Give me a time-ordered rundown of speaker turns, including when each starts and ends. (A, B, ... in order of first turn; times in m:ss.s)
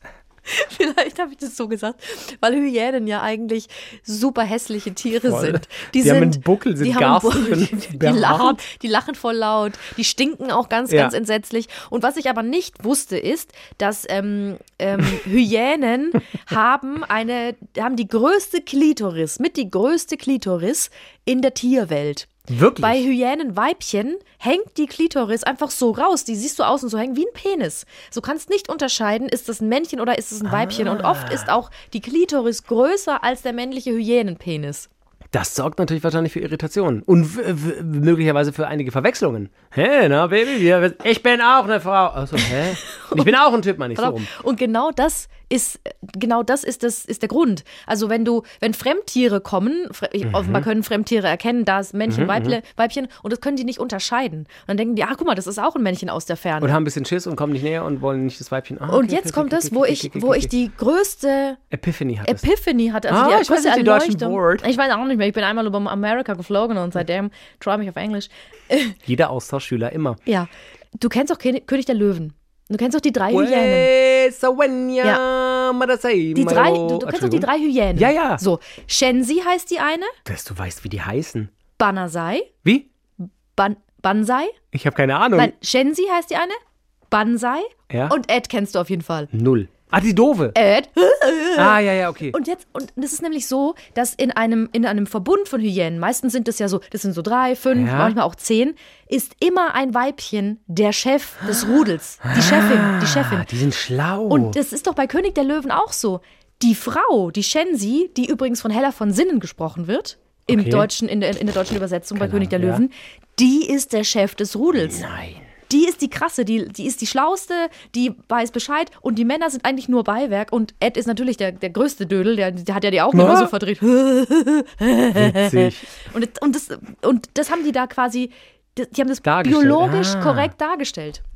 0:00.4-0:34.9 A
0:05.2-0:08.6 B
0:10.9-0:11.1 B
0:22.5-0:23.0 B
0:30.4-0:31.5 B
0:35.3-0:44.3 B
0:42.9-0:43.3 A
0:43.9-0:56.8 A
0:50.3-0:50.6 B
0:52.1-0:52.6 B
0:56.6-1:00.5 B
0:58.9-1:01.6 A
1:01.7-1:02.4 B
1:02.2-1:09.0 A
1:03.1-1:04.6 B
1:09.0-1:10.2 B
1:10.2-1:13.9 A
1:13.3-1:18.4 B
1:16.3-1:20.2 A
1:20.2-1:21.5 B
1:21.8-1:22.5 A
1:23.2-1:24.6 A
1:24.7-1:25.5 B
1:25.4-1:26.6 A
1:27.1-1:29.3 A
1:27.9-1:28.2 B
1:29.3-1:30.6 B
1:30.5-1:43.5 A
1:31.6-1:32.3 B
1:37.7-1:38.2 B
1:42.3-1:44.6 B
1:44.3-1:55.0 A
1:50.5-1:50.9 B
1:52.2-1:52.8 B
1:54.8-1:55.4 B
1:55.7-2:11.2 A
2:03.1-2:03.5 B
2:05.1-2:05.9 B
2:09.2-2:10.5 B